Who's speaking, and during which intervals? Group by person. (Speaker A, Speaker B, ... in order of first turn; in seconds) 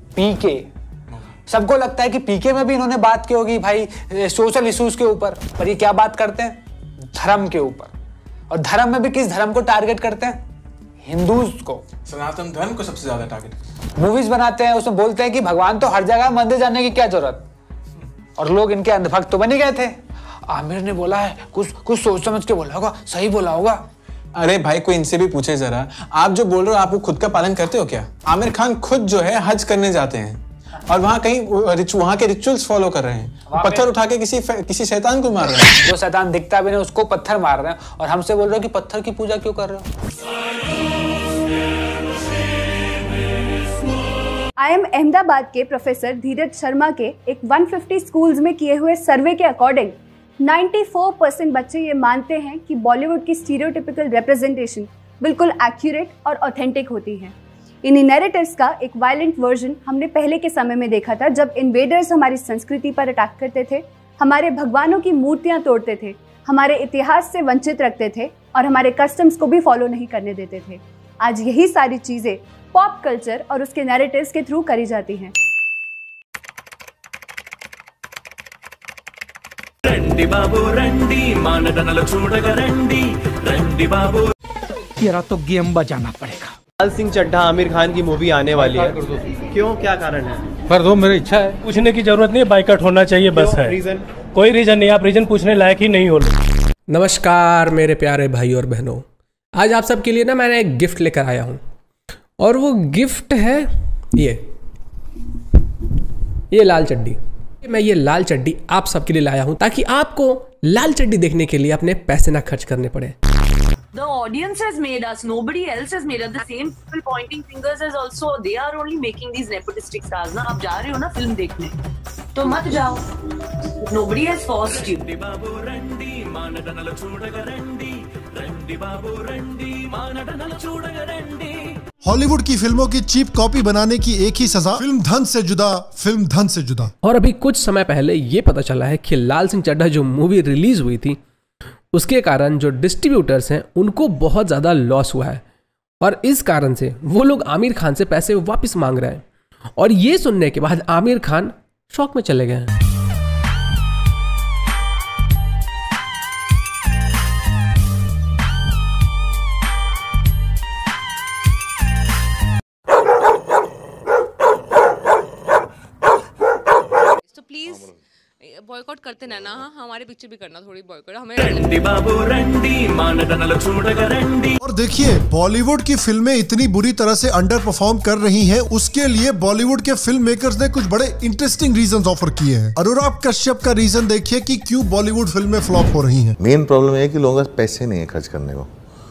Speaker A: 0.2-0.7, 1.5-6.6, 7.1-7.9, 8.5-10.4, 11.0-11.8, 14.0-17.4, 18.4-23.8, 33.5-33.9, 35.8-39.8
Speaker B: 12.1-13.6, 24.4-35.9
Speaker C: 44.6-75.3
Speaker D: 79.9-84.3, 125.0-131.8, 171.4-174.6
Speaker E: 85.0-86.5, 91.1-91.5
Speaker F: 86.8-90.4, 93.5-94.0
Speaker G: 91.6-93.8, 94.3-96.3
Speaker H: 96.9-101.6, 102.4-104.4, 106.5-113.2, 137.0-141.2, 141.9-145.4, 146.0-149.2, 149.8-152.7
Speaker I: 113.9-121.8, 122.3-123.0, 123.8-125.0
Speaker J: 132.0-136.9, 174.6-186.4
Speaker K: 167.3-167.9, 168.4-171.4
Speaker L: 186.4-188.7